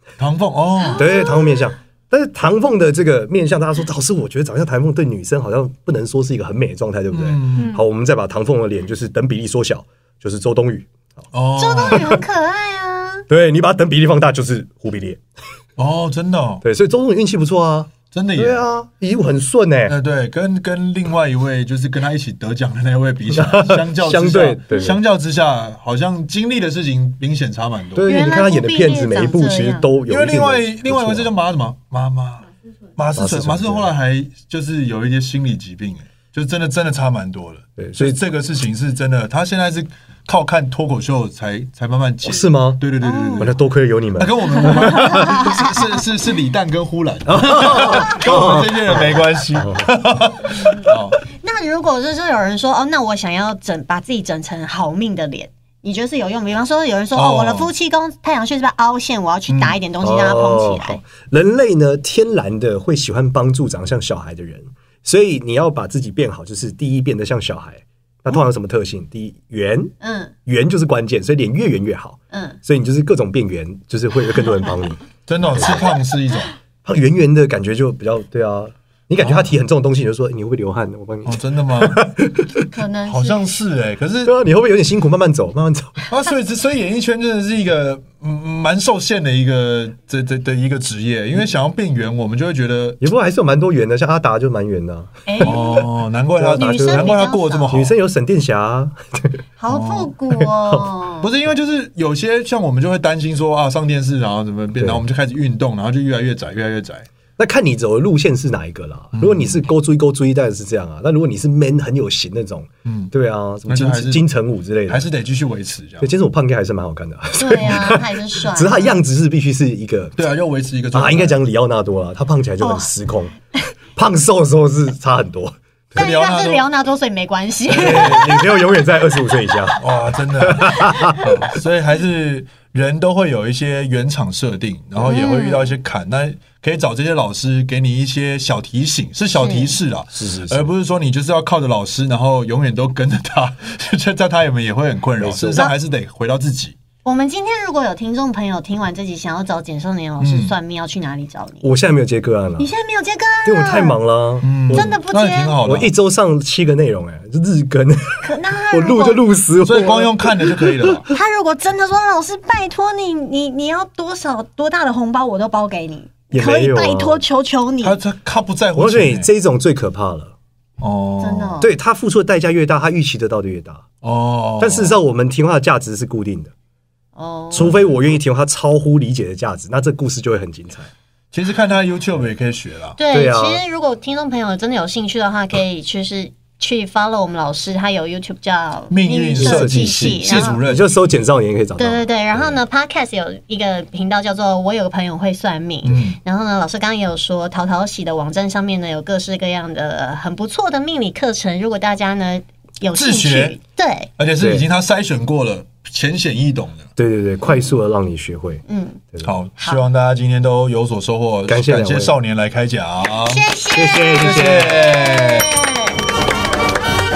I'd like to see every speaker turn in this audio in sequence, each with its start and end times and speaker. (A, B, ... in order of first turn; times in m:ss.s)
0:00.2-0:01.2 A
0:00.8-0:01.7 B
0:00.9-0:11.2 C
0:07.1-0:07.7 A
0:07.5-0:07.8 B
0:11.3-0:12.1 A
0:11.6-0:13.2 B
0:11.9-0:12.2 C
0:13.3-0:15.2 C
0:15.8-0:16.6 A
0:16.6-0:19.9 C
0:18.1-0:18.6 A
0:19.9-0:28.1 A
0:23.3-0:25.0 C
0:27.9-0:31.3 C
0:28.0-0:29.9 B
0:30.1-0:43.5 A
0:33.2-0:33.9 C
0:37.8-0:38.2 C
0:42.2-0:42.8 C
0:43.0-0:43.5 B
0:43.4-0:45.3 C
0:44.1-0:51.2 A
0:44.5-0:46.0 B
0:47.3-0:49.9 C
0:51.3-1:01.0 B
0:57.1-0:57.7 A
0:59.5-0:59.8 A
1:00.0-1:09.9 C
1:10.0-1:10.3 B
1:10.4-1:15.8 C
1:12.3-1:12.6 B
1:15.3-1:16.5 A
1:16.8-1:22.7 C
1:19.2-1:19.5 A
1:21.2-1:22.1 A
1:22.7-1:23.5 B
1:23.1-1:24.3 A
1:24.2-1:26.0 C
1:26.1-1:33.0 A
1:33.0-1:35.8 C
1:35.2-1:35.8 B
1:35.4-1:37.9 A
1:36.4-1:37.2 C
1:36.5-1:37.8 B
1:37.7-1:39.4 C
1:39.6-1:41.3 B
1:39.7-1:40.1 A
1:41.2-1:47.1 A
1:47.4-1:55.1 C
1:49.1-1:49.6 A
1:52.8-1:53.1 A
1:53.7-1:54.2 A
1:54.9-1:56.1 A
1:56.0-2:00.2 C
1:57.4-1:59.0 B
2:00.2-2:01.4 A
2:00.9-2:03.3 C
2:02.6-2:02.9 B
2:03.9-2:05.5 C
2:05.9-2:06.7 A
2:05.9-2:08.7 B
2:07.7-2:08.5 A
2:07.8-2:09.9 C
2:09.8-2:26.8 A
2:10.4-2:11.2 C
2:15.0-2:15.7 B
2:19.4-2:19.7 B
2:20.1-2:20.7 C
2:25.2-2:25.7 C
2:27.0-2:31.7 B
2:30.2-2:30.5 A
2:31.6-2:32.7 C
2:32.6-2:33.9 B
2:33.4-2:35.0 C
2:34.4-2:35.9 A
2:34.7-2:35.6 B
2:35.6-2:41.0 C
2:38.2-2:39.2 B
2:39.6-2:41.0 A
2:41.1-2:48.0 B
2:46.3-2:47.2 C
2:47.8-2:49.3 A
2:48.8-2:50.3 C
2:50.8-2:51.6 A
2:51.2-2:51.7 B
2:51.6-2:53.8 C
2:54.0-2:55.0 A
2:54.6-2:56.5 C
2:57.1-2:57.7 B
2:57.5-3:00.9 C
2:57.6-2:57.9 A
3:01.3-3:03.0 A
3:03.0-3:10.6 B
3:03.1-3:03.6 C
3:08.9-3:11.0 A
3:09.4-3:12.6 C
3:11.8-3:24.1 B
3:15.8-3:16.2 A
3:22.9-3:23.6 A
3:24.2-3:26.9 A
3:24.4-3:24.6 C
3:27.0-3:28.6 C
3:28.7-3:29.0 B
3:29.2-3:33.5 A
3:31.5-3:32.2 C
3:33.1-3:36.0 B
3:33.7-3:34.8 C
3:34.1-3:35.5 A